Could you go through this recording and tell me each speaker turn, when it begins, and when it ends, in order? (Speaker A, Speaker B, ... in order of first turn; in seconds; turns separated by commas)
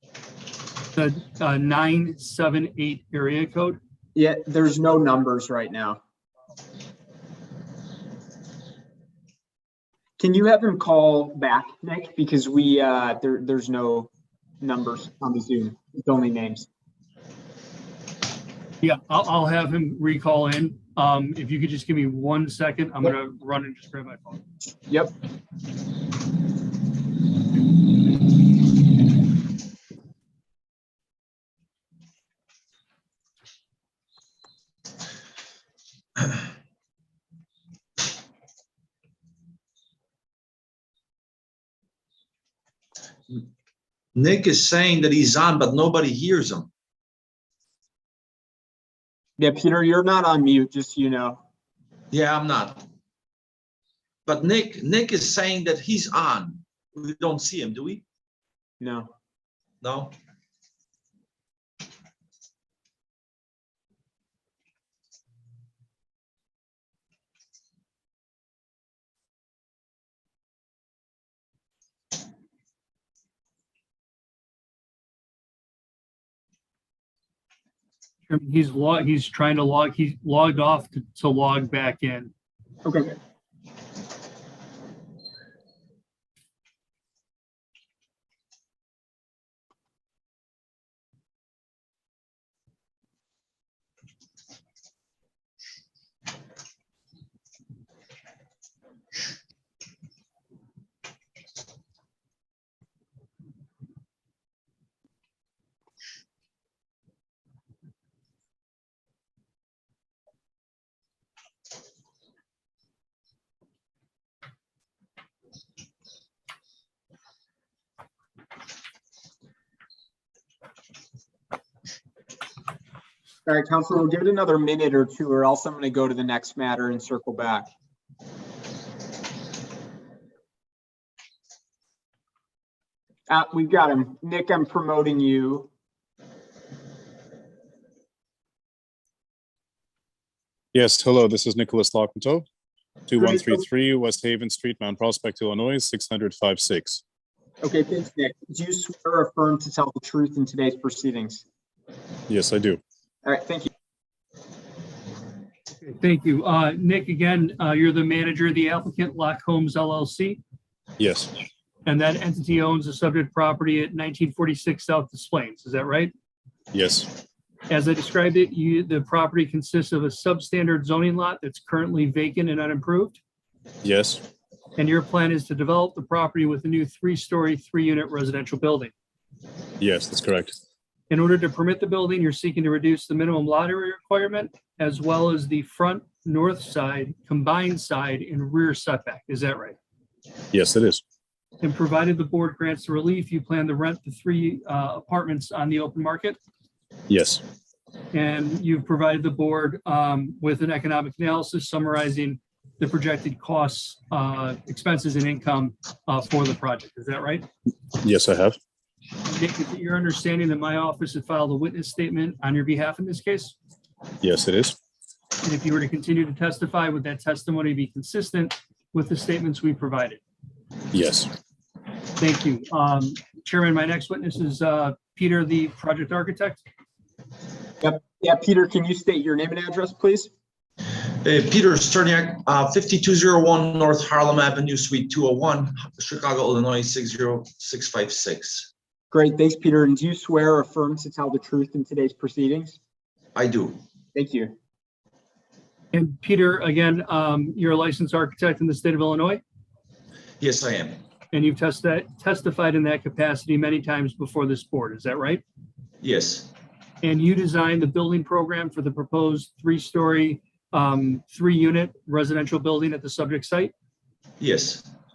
Speaker A: 0.9-3.8, Speaker B: 4.1-6.0, Speaker B: 10.2-14.1, Speaker B: 14.6-16.7, Speaker A: 18.8-24.4, Speaker C: 44.1-46.7, Speaker B: 49.4-51.4, Speaker C: 52.1-52.9, Speaker C: 54.2-58.0, Speaker B: 58.8-59.1, Speaker C: 59.8-60.1, Speaker A: 78.3-82.3, Speaker B: 82.8-83.1, Speaker B: 123.5-127.7, Speaker B: 133.3-135.7, Speaker D: 140.7-142.4, Speaker D: 143.1-147.0, Speaker B: 143.2-143.6, Speaker B: 147.6-151.4, Speaker D: 152.3-152.8, Speaker B: 153.2-153.7, Speaker A: 155.8-160.4, Speaker D: 161.0-161.3, Speaker A: 161.8-166.1, Speaker D: 166.7-167.2, Speaker A: 167.7-173.2, Speaker D: 173.8-174.3, Speaker A: 174.8-178.9, Speaker D: 179.8-180.5, Speaker A: 181.1-189.8, Speaker D: 190.5-191.0, Speaker A: 191.6-196.4, Speaker D: 197.1-197.4, Speaker A: 198.1-207.5, Speaker D: 208.0-208.6, Speaker A: 209.2-213.5, Speaker D: 214.2-214.8, Speaker A: 215.4-220.2, Speaker D: 220.9-221.3, Speaker A: 222.2-226.6, Speaker B: 227.8-230.3, Speaker C: 231.2-238.7, Speaker B: 239.1-242.8, Speaker C: 243.3-243.8, Speaker B: 244.1-244.5, Speaker A: 245.9-249.4, Speaker C: 250.4-251.0, Speaker A: 251.3-255.4, Speaker C: 256.0-256.5, Speaker A: 257.0-263.7, Speaker C: 264.4-264.9